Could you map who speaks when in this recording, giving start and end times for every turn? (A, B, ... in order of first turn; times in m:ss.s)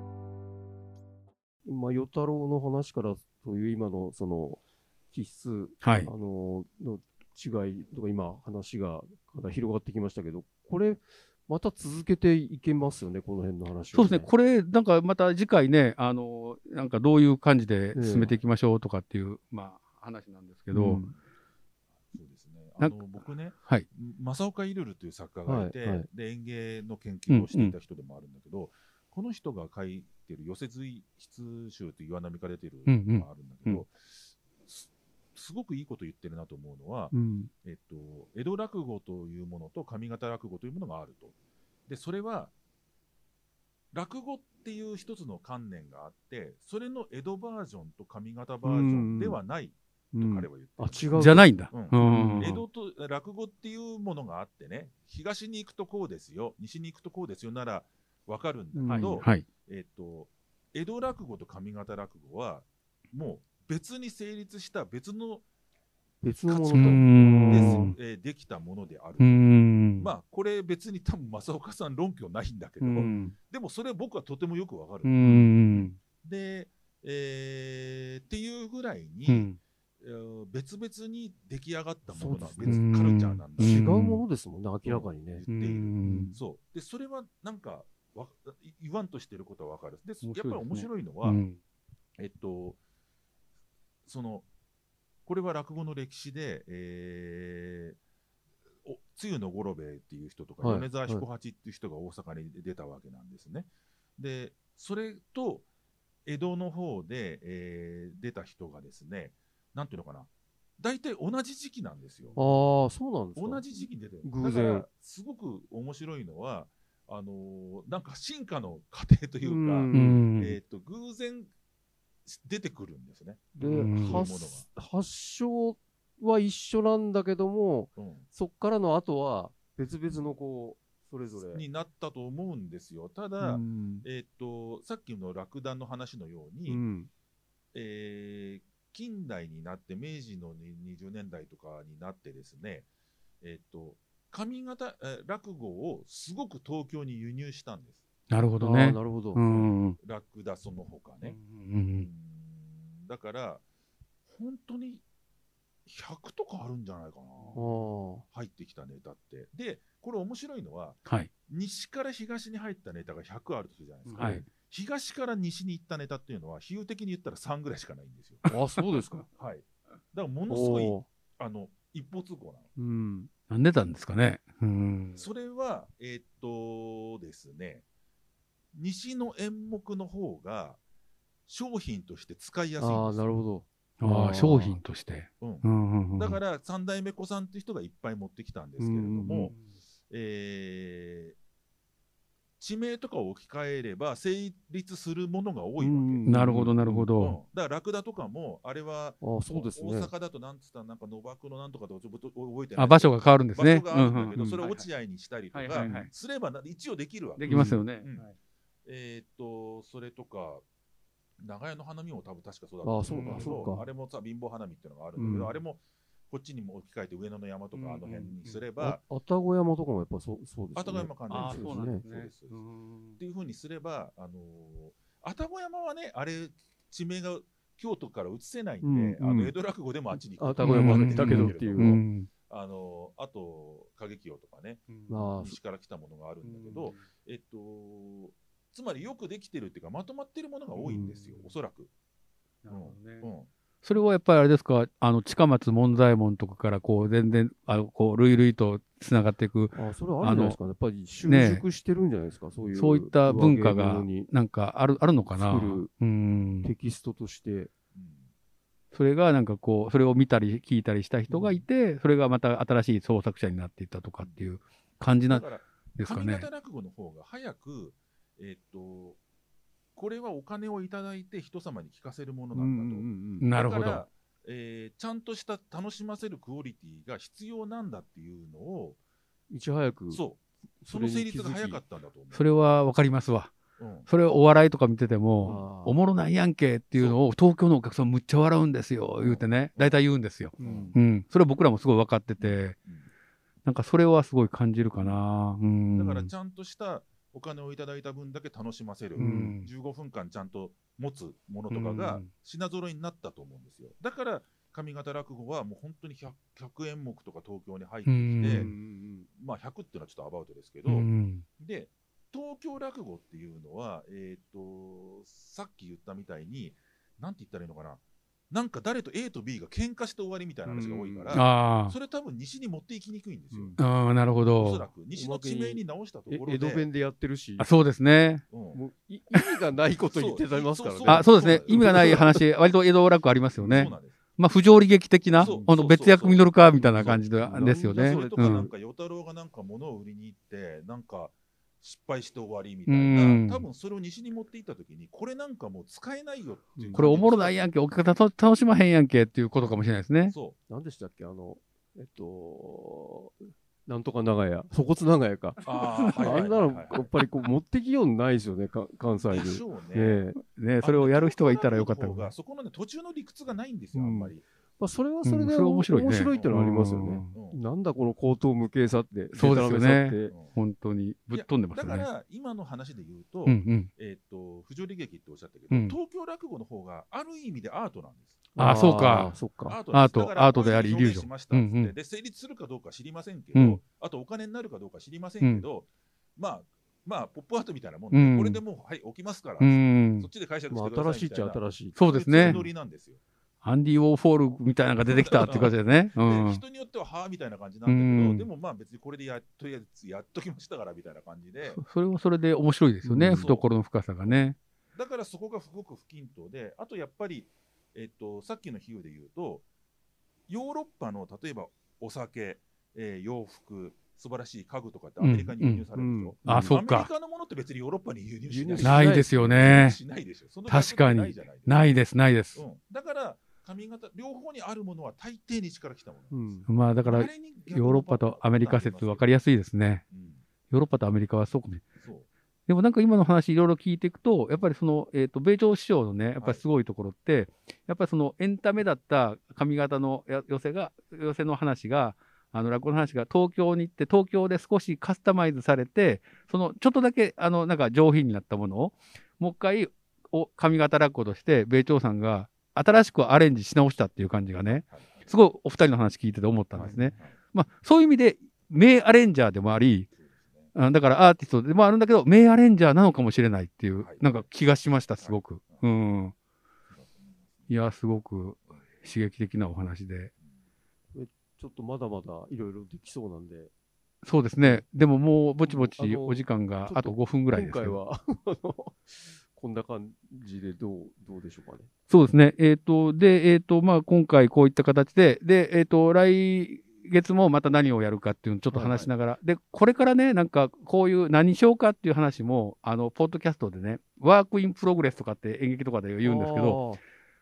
0:01.6-0:14.3 A
0:05.8-0:06.1 B
0:13.9-0:21.0 B
0:17.9-0:18.4 A
0:20.7-0:21.2 A
0:22.1-0:37.1 C
0:25.4-0:26.1 A
0:27.3-0:27.8 B
0:32.9-0:33.8 B
0:37.1-0:37.5 A
0:37.6-0:41.4 C
0:41.9-0:42.5 C
0:43.9-1:05.4 C
0:48.6-0:49.4 A
0:50.1-0:52.5 A
0:51.2-0:52.6 B
0:58.7-0:59.2 A
0:58.9-0:59.4 B
1:06.2-1:07.9 A
1:06.5-1:19.5 C
1:06.7-1:08.0 B
1:09.2-1:10.1 B
1:12.8-1:13.2 B
1:13.0-1:13.4 A
1:15.0-1:16.0 B
1:15.2-1:15.5 A
1:19.3-1:19.6 B
1:20.0-1:23.9 C
1:22.1-1:22.8 A
1:22.6-1:24.2 B
1:23.6-1:25.5 A
1:24.8-1:31.4 C
1:25.5-1:26.3 B
1:26.0-1:26.4 A
1:30.2-1:31.6 B
1:32.2-1:32.8 C
1:34.1-1:34.5 C
1:35.3-1:38.0 C
1:38.8-1:45.7 C
1:40.6-1:41.2 A
1:46.3-1:52.4 C
1:52.4-1:54.9 A
1:53.4-2:01.5 C
1:59.4-2:00.2 A
1:59.9-2:00.6 B
2:02.3-2:04.7 C
2:03.6-2:11.6 A
2:03.6-2:04.3 B
2:08.0-2:08.3 C
2:11.4-2:16.8 C
2:13.4-2:14.1 A
2:16.7-2:17.1 A
2:17.7-2:22.9 C
2:23.4-2:28.0 C
2:28.3-2:30.0 B
2:28.6-2:29.4 A
2:29.5-2:31.4 C
2:31.2-2:32.1 B
2:31.9-2:33.6 C
2:34.3-2:35.0 C
2:35.9-2:37.7 C
2:37.5-2:38.2 A
2:38.3-2:48.5 C
2:44.1-2:44.5 B
2:44.2-2:44.4 A
2:48.5-2:49.2 A
2:49.4-2:52.7 C
2:50.5-2:51.1 A
2:52.8-2:53.3 A
2:53.5-2:55.2 B
2:55.2-2:57.8 C
2:58.7-3:00.8 C
3:01.5-3:03.3 C
3:02.8-3:04.8 A
3:04.0-3:06.4 B
3:05.4-3:09.6 C
3:08.8-3:09.5 A
3:10.1-3:11.4 C
3:12.6-3:16.4 C
3:15.8-3:17.1 A
3:16.3-3:17.4 B
3:17.2-3:28.3 C
3:19.2-3:20.1 A
3:22.8-3:24.8 B
3:25.5-3:26.1 B
3:25.7-3:26.1 A
3:27.4-3:28.3 B
3:27.5-3:27.9 A
3:28.9-3:30.6 C
3:31.4-3:39.0 C
3:32.8-3:33.9 A
3:33.1-3:33.8 B
3:35.2-3:35.6 A
3:37.7-3:38.6 B
3:38.8-3:42.0 A
3:40.8-3:42.6 C
3:41.3-3:43.2 B
3:43.2-3:54.8 C
3:48.8-3:49.5 A
3:50.4-3:52.0 A
3:50.6-3:52.3 B
3:54.9-3:55.4 B
3:55.1-3:55.6 A
3:55.4-4:01.9 C
3:56.4-3:57.1 B
4:00.7-4:01.6 B
4:00.9-4:01.1 A
4:02.6-4:03.3 B
4:02.7-4:03.5 C
4:03.8-4:10.6 B
4:09.7-4:14.3 A
4:11.3-4:11.6 B
4:12.7-4:16.7 B
4:15.3-4:15.9 A
4:16.6-4:17.7 A
4:17.9-4:18.3 C
4:18.9-4:26.5 B
4:21.3-4:21.6 A
4:24.2-4:24.5 C
4:25.3-4:29.2 C
4:30.0-4:39.0 C
4:32.5-4:33.5 A
4:33.4-4:34.0 B
4:39.5-4:40.2 A
4:40.1-4:42.5 C
4:40.8-4:41.8 A
4:42.3-4:43.5 B
4:43.8-4:44.1 C
4:44.1-4:52.8 B
4:45.4-4:46.0 A
4:46.9-4:47.2 C
4:49.8-4:50.0 C
4:50.6-4:51.0 A
4:50.6-4:51.0 C
4:52.4-4:53.1 C
4:53.6-4:56.3 B
4:55.9-5:08.7 C
4:59.2-4:59.7 B
4:59.2-4:59.6 A
5:01.7-5:02.3 B
5:08.1-5:08.7 B
5:08.5-5:09.3 A
5:09.4-5:23.8 C
5:10.8-5:11.4 B
5:20.6-5:21.4 A
5:21.3-5:22.0 B
5:23.5-5:23.8 A
5:23.8-5:24.9 B
5:24.6-5:26.9 C
5:25.1-5:27.8 A
5:27.6-5:28.4 B
5:28.5-5:28.8 C
5:28.7-5:32.4 A
5:30.0-5:32.3 C
5:31.1-5:38.7 B
5:33.6-5:33.9 A
5:33.6-5:34.2 C
5:35.4-5:35.7 A
5:35.4-5:47.6 C
5:36.8-5:38.7 A
5:42.9-5:43.6 B
5:46.8-5:47.1 A
5:47.0-5:50.4 B
5:50.3-5:50.6 C
5:50.7-5:55.6 A
5:55.6-5:56.4 B
5:55.6-5:57.1 C
5:56.2-6:00.4 A
5:59.3-6:00.2 C
6:00.5-6:02.4 B
6:00.8-6:04.4 C
6:03.9-6:10.4 A
6:05.2-6:07.4 B
6:06.3-6:06.6 C
6:07.3-6:07.6 C
6:09.3-6:12.1 B
6:09.4-6:10.6 C
6:11.3-6:33.2 C
6:13.4-6:13.9 B
6:15.7-6:16.0 B
6:18.6-6:19.8 A
6:18.6-6:19.3 B
6:19.9-6:21.9 B
6:23.5-6:23.8 B
6:28.1-6:28.6 B
6:29.6-6:30.3 B
6:30.7-6:32.6 A
6:32.0-6:32.7 B
6:33.6-6:36.6 B
6:35.1-6:41.8 C
6:35.5-6:35.7 A
6:37.9-6:38.5 B
6:41.6-6:44.6 B
6:43.0-6:43.5 A
6:43.2-6:43.7 C
6:44.2-6:49.7 C
6:50.5-7:01.9 C
6:55.2-6:55.8 B
6:55.9-6:56.6 A
6:56.5-6:57.1 B
6:58.5-6:59.3 A
6:58.8-7:00.0 B
7:00.7-7:02.6 B
7:02.5-7:09.4 C
7:06.3-7:06.6 A
7:06.7-7:10.0 B
7:10.1-7:10.4 C
7:10.7-7:11.8 B
7:12.0-7:12.3 C
7:12.7-7:40.1 B
7:16.4-7:16.6 C
7:34.7-7:35.3 C
7:36.7-7:37.4 C
7:36.8-7:37.1 A
7:40.1-7:40.8 C
7:40.8-7:46.3 B
7:44.0-7:44.5 C
7:45.2-7:45.9 C
7:46.9-7:47.7 C
7:47.7-7:50.3 B
7:51.1-7:53.7 A
7:54.2-7:58.0 B
7:55.7-8:01.9 A
8:02.1-8:16.8 B
8:08.7-8:09.0 A
8:08.8-8:09.1 C
8:16.2-8:17.0 A